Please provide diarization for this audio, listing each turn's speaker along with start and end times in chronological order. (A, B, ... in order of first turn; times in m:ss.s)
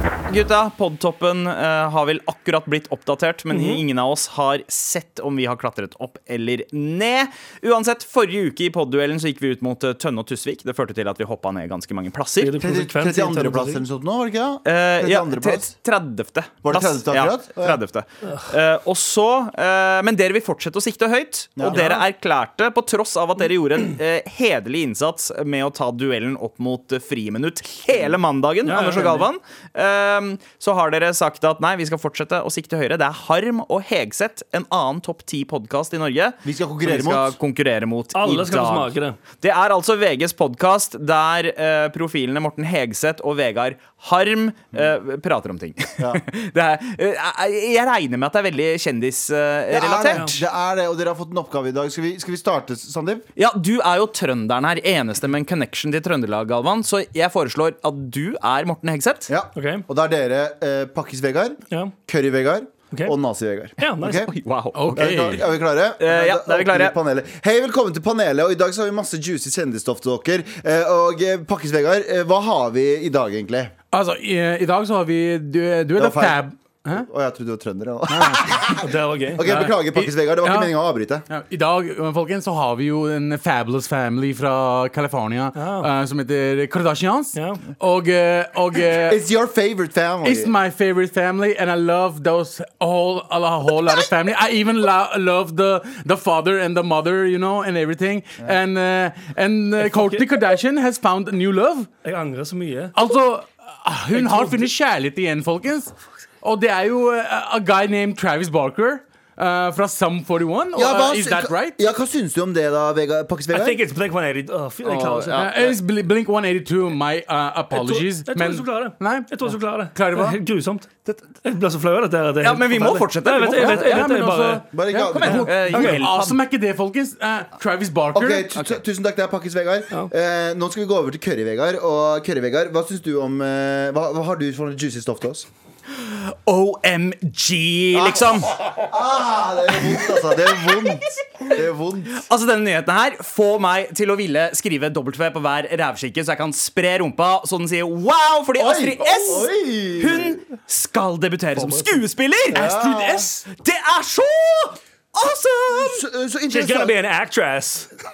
0:00.3-0:12.5 A
0:03.5-0:03.8 B
0:12.4-0:13.8 B
0:12.6-0:15.7 C
0:14.6-0:50.4 A
0:16.6-0:17.8 C
0:21.6-0:22.0 C
0:28.7-0:29.3 B
0:36.4-0:37.4 C
0:38.1-0:39.2 B
0:46.0-0:46.2 C
0:49.7-0:53.2 C
0:50.1-0:50.4 B
0:53.4-0:59.3 A
0:59.3-1:04.3 C
0:59.6-0:59.8 B
1:03.8-1:04.3 B
1:04.3-1:05.4 A
1:04.8-1:05.4 D
1:04.9-1:13.7 C
1:06.0-1:07.0 A
1:13.9-1:17.1 D
1:16.0-1:21.3 C
1:18.1-1:18.6 D
1:18.8-1:19.4 B
1:19.4-1:20.7 D
1:21.3-1:29.2 D
1:25.6-1:25.9 B
1:27.3-1:27.6 B
1:28.9-1:30.5 C
1:30.2-1:41.9 D
1:39.8-1:40.2 B
1:42.0-1:43.0 B
1:43.0-1:51.8 D
1:44.1-1:44.7 B
1:50.8-1:53.8 C
1:53.5-1:55.5 B
1:54.8-1:55.7 A
1:55.4-2:00.4 D
1:57.7-2:00.9 B
2:01.4-2:04.6 B
2:02.4-2:04.1 A
2:03.6-2:08.5 D
2:04.7-2:05.7 C
2:05.0-2:06.4 A
2:05.3-2:06.0 B
2:08.1-2:15.5 C
2:15.9-2:18.6 A
2:17.9-2:22.2 C
2:22.2-2:36.0 A
2:28.6-2:30.4 C
2:31.6-2:32.0 B
2:32.5-2:33.3 C
2:35.7-2:37.0 C
2:36.5-2:37.9 B